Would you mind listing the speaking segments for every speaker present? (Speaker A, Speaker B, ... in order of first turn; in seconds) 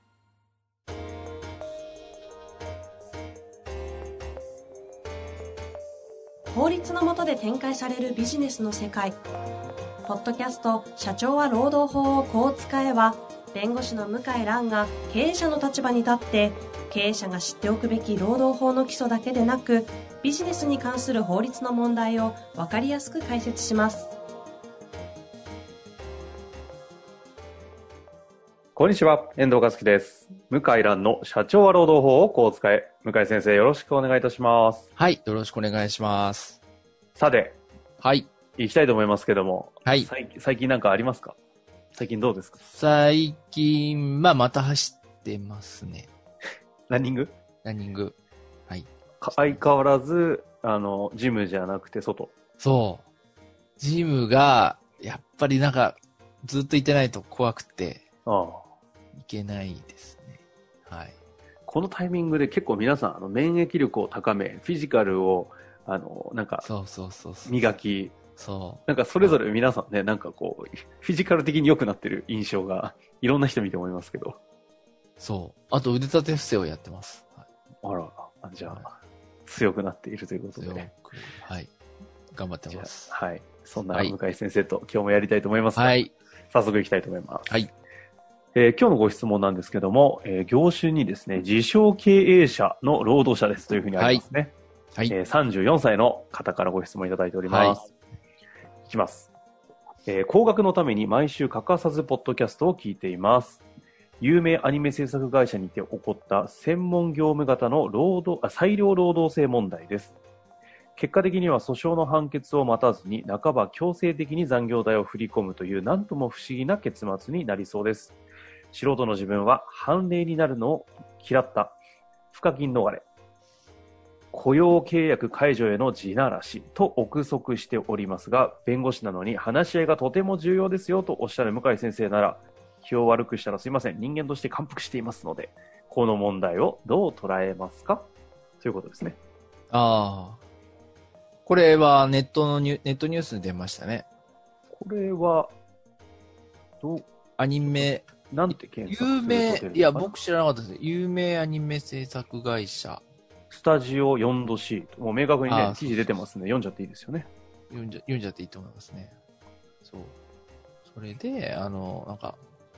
Speaker A: 6.5-9.2, 10.0-24.1
Speaker B: 28.8-34.9, 37.1-37.6, 38.6-41.4, 41.9-42.6, 46.9-47.3, 49.2-52.3, 58.2-58.7, 61.6-66.7, 67.5-68.1, 68.9-74.4, 77.8-78.9, 79.5-80.9, 82.7-87.5, 88.5-94.5, 95.1-97.9, 98.9-99.3, 100.0-103.6, 104.2-110.1, 111.0-118.2, 118.7-121.8, 122.3-123.0, 124.3-138.1, 138.6-139.2, 144.7-145.5, 146.8-147.1, 147.7-150.1, 153.5-157.3
Speaker C: 35.0-36.6, 38.0-38.3, 42.6-46.1, 47.6-48.2, 48.7-49.6, 52.6-53.0, 53.8-58.0, 59.1-61.1, 66.6-67.7, 68.3-69.4, 75.2-77.4, 80.6-81.7, 82.3-83.1, 85.8-86.1, 94.0-94.2, 97.5-97.8, 139.7-140.4, 141.4-144.1, 147.4-148.0, 148.9-153.0, 155.4-156.1, 157.7-159.1, 159.8-160.1, 160.9-162.4